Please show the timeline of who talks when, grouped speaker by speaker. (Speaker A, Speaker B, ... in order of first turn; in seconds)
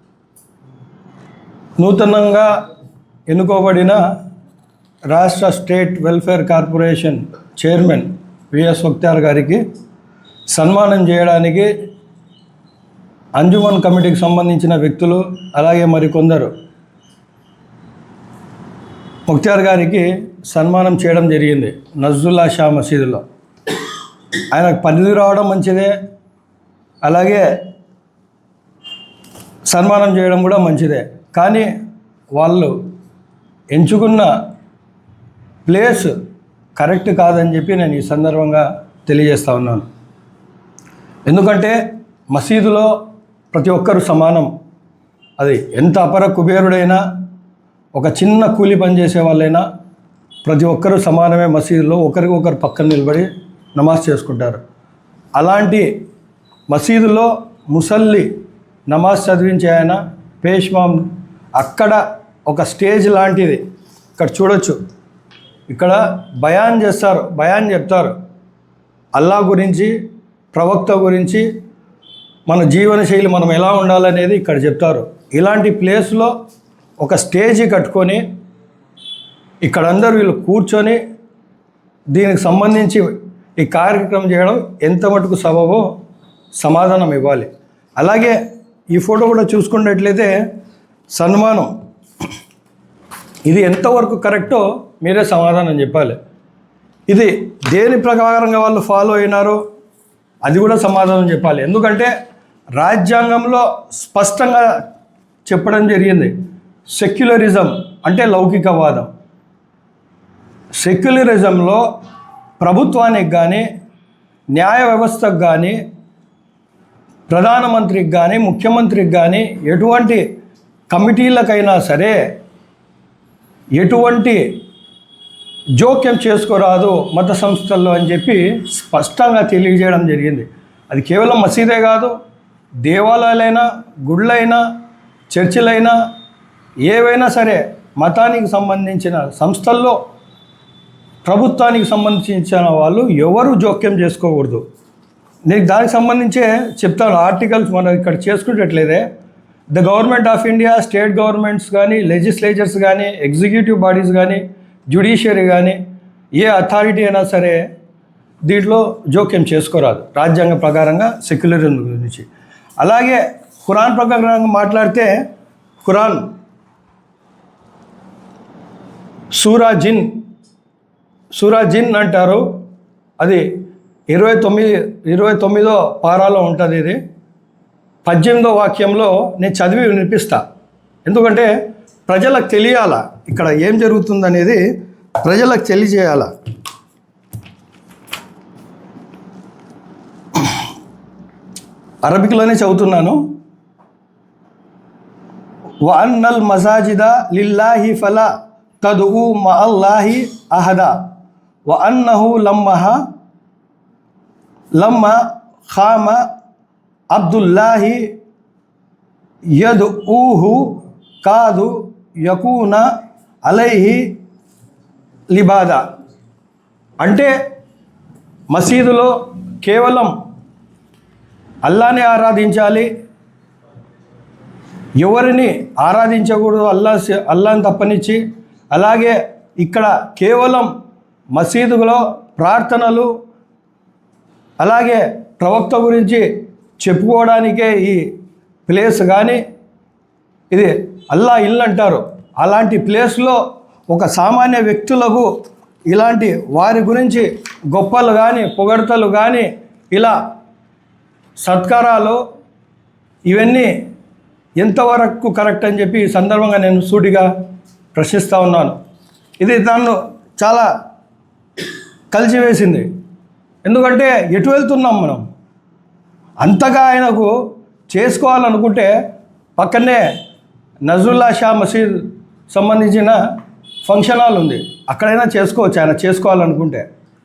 Speaker A: 1.8-2.5, 3.3-4.0, 5.1-9.6, 10.5-11.7, 13.4-16.5, 19.3-23.2, 24.5-25.9, 27.0-27.4, 29.7-31.7, 32.4-32.7, 33.7-34.3, 35.6-36.1, 36.8-39.9, 41.3-41.8, 42.3-42.9, 43.5-44.5, 45.4-47.0, 47.9-49.6, 50.4-54.6, 55.4-55.9, 56.7-58.3, 58.9-61.0, 61.6-63.6, 64.2-64.8, 65.7-68.1, 69.1-69.9, 70.5-71.5, 72.5-76.3, 77.0-78.2, 79.6-81.0, 82.1-85.8, 86.5-88.4, 88.9-90.3, 91.1-91.7, 93.5-96.2, 97.1-99.6, 100.4-102.1, 102.8-104.7, 105.5-106.3, 106.9-109.1, 110.8-111.8, 112.6-113.6, 114.5-115.8, 117.3-120.2, 120.9-122.2, 123.8-124.5, 125.8-132.1, 132.8-134.6, 135.3-135.9, 136.8-140.0, 141.2-144.6, 145.5-149.1, 149.7-155.8, 156.3-157.6, 158.5-162.3, 162.8-165.2, 165.8-166.3, 169.3-170.1, 171.3-172.4, 174.1-177.0, 178.0-180.4, 181.0-181.5, 182.1-184.6, 185.2-186.3, 192.0-193.2, 195.8-201.0, 201.7-203.0, 204.8-206.2, 207.1-208.1, 209.6-212.8, 213.4-214.0, 215.3-215.8, 217.0-217.3, 218.5-220.1, 221.6-222.9, 225.0-230.7, 231.3-233.1, 234.6-236.3, 236.8-238.0, 238.7-239.4, 240.5-245.3, 245.9-250.2, 251.4-252.2, 253.3-253.7, 254.6-257.3, 257.9-258.8, 259.4-260.7, 262.1-262.9, 263.6-265.2, 266.4-267.3, 267.9-268.9, 269.6-270.0, 270.9-273.2, 273.8-276.8